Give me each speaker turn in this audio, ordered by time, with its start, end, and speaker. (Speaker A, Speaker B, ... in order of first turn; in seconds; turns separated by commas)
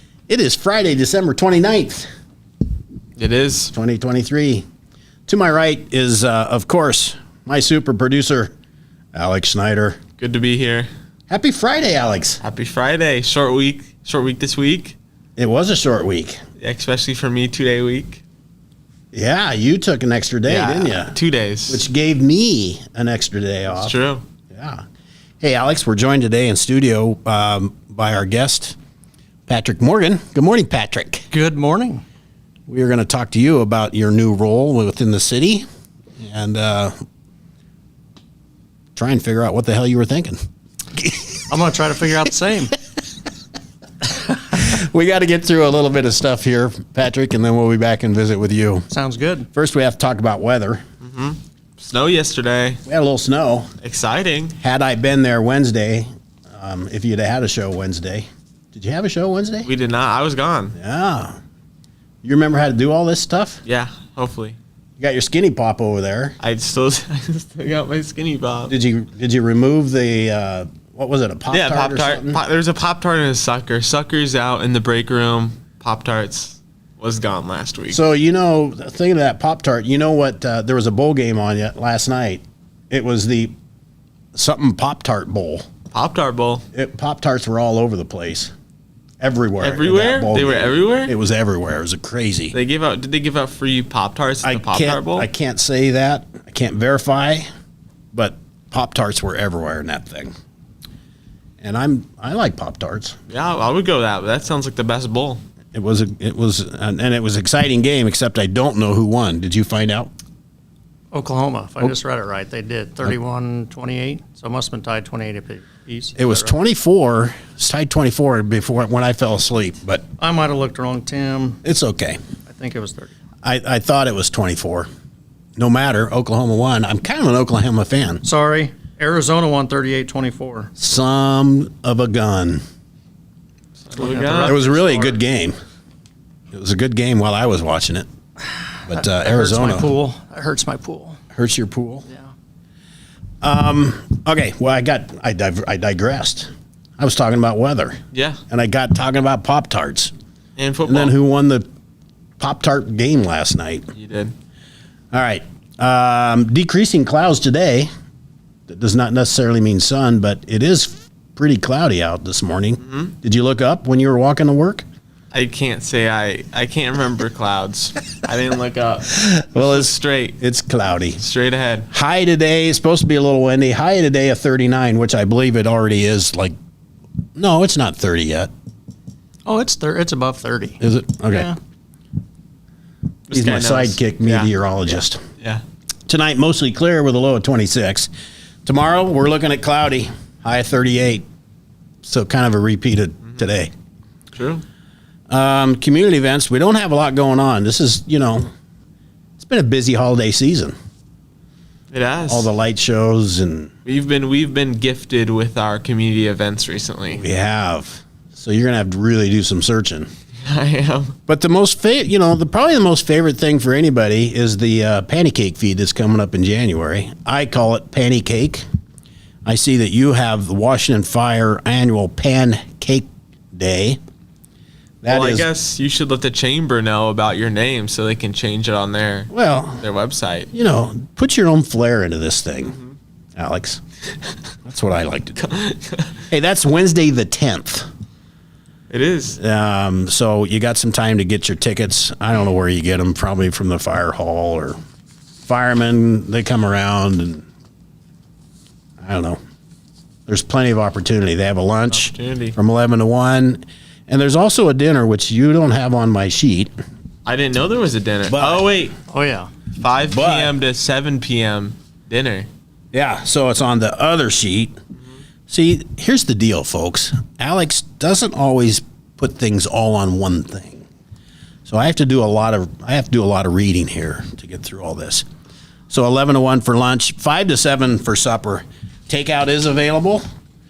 Speaker A: 0.3-2.1, Speaker B: 3.2-3.7, Speaker A: 3.7-4.6, Speaker A: 5.3-8.5, Speaker A: 9.1-10.0, Speaker B: 10.2-10.9, Speaker A: 11.3-12.4, Speaker B: 12.4-14.9, Speaker A: 15.4-16.4, Speaker B: 16.6-18.2, Speaker A: 19.1-21.1, Speaker B: 20.5-21.8, Speaker A: 21.7-24.0, Speaker B: 23.7-24.2, Speaker A: 24.5-24.8, Speaker A: 25.4-28.8, Speaker A: 29.5-31.3, Speaker C: 31.3-32.0, Speaker A: 32.7-35.6, Speaker A: 36.2-36.9, Speaker A: 39.0-40.4, Speaker A: 41.0-41.4, Speaker C: 41.5-42.7, Speaker A: 44.5-48.9, Speaker C: 48.9-49.5, Speaker A: 49.5-50.8, Speaker B: 51.0-52.8, Speaker A: 52.9-53.7, Speaker B: 53.8-54.6, Speaker A: 54.6-59.7, Speaker B: 59.6-60.8, Speaker A: 60.7-61.4, Speaker A: 62.2-63.6, Speaker B: 63.6-64.6, Speaker A: 65.0-66.3, Speaker B: 66.4-68.7, Speaker A: 68.7-72.4, Speaker B: 71.5-78.0, Speaker A: 77.9-83.5, Speaker A: 84.3-85.7, Speaker B: 85.9-86.6, Speaker A: 86.7-88.5, Speaker A: 89.2-92.5, Speaker B: 89.6-91.1, Speaker B: 92.5-95.3, Speaker A: 94.4-97.5, Speaker A: 98.1-100.3, Speaker A: 101.6-103.1, Speaker B: 103.3-105.4, Speaker A: 105.7-110.1, Speaker C: 111.1-116.5, Speaker A: 116.2-120.0, Speaker C: 120.2-121.6, Speaker A: 121.6-122.2, Speaker C: 122.5-123.1, Speaker A: 123.4-124.9, Speaker A: 125.6-128.2, Speaker C: 128.2-130.7, Speaker A: 130.8-132.6, Speaker B: 133.8-134.6, Speaker C: 133.9-135.2, Speaker A: 134.4-135.5, Speaker A: 136.5-138.1, Speaker A: 138.9-139.9, Speaker C: 138.9-141.2, Speaker A: 141.3-142.1, Speaker A: 143.4-148.0, Speaker B: 148.1-148.4, Speaker A: 148.5-150.1, Speaker B: 150.6-151.1, Speaker A: 150.8-151.7, Speaker A: 152.4-153.9, Speaker B: 153.9-154.3, Speaker A: 155.1-157.9, Speaker A: 158.7-164.8, Speaker B: 162.8-163.1, Speaker B: 165.3-170.4, Speaker A: 169.4-171.2, Speaker B: 171.2-171.9, Speaker A: 171.9-176.5, Speaker A: 177.3-178.5, Speaker C: 179.4-180.8, Speaker A: 180.8-181.5, Speaker C: 181.3-181.6, Speaker B: 183.3-184.5, Speaker A: 183.3-185.2, Speaker A: 186.1-188.1, Speaker A: 188.6-191.2, Speaker A: 192.0-193.7, Speaker B: 194.3-194.6, Speaker A: 195.3-198.5, Speaker A: 199.4-200.7, Speaker B: 201.9-202.5, Speaker A: 202.3-203.7, Speaker B: 203.8-207.2, Speaker A: 207.1-210.1, Speaker B: 210.4-211.1, Speaker A: 211.3-218.6, Speaker A: 219.4-224.0, Speaker A: 225.0-225.5, Speaker B: 225.1-230.5, Speaker A: 229.3-229.8, Speaker A: 230.5-232.8, Speaker B: 232.7-232.9, Speaker A: 233.3-233.8, Speaker A: 234.6-235.5, Speaker B: 235.4-236.1, Speaker A: 236.3-237.9, Speaker B: 238.9-239.4, Speaker A: 239.4-244.8, Speaker A: 245.4-247.4, Speaker A: 249.0-249.4, Speaker A: 250.3-256.7, Speaker B: 251.9-252.6, Speaker B: 257.2-258.9, Speaker A: 258.3-258.7, Speaker C: 259.1-259.5, Speaker B: 259.8-262.5, Speaker A: 260.1-260.5, Speaker A: 262.9-264.7, Speaker A: 265.5-270.8, Speaker A: 271.6-275.2, Speaker A: 275.9-280.2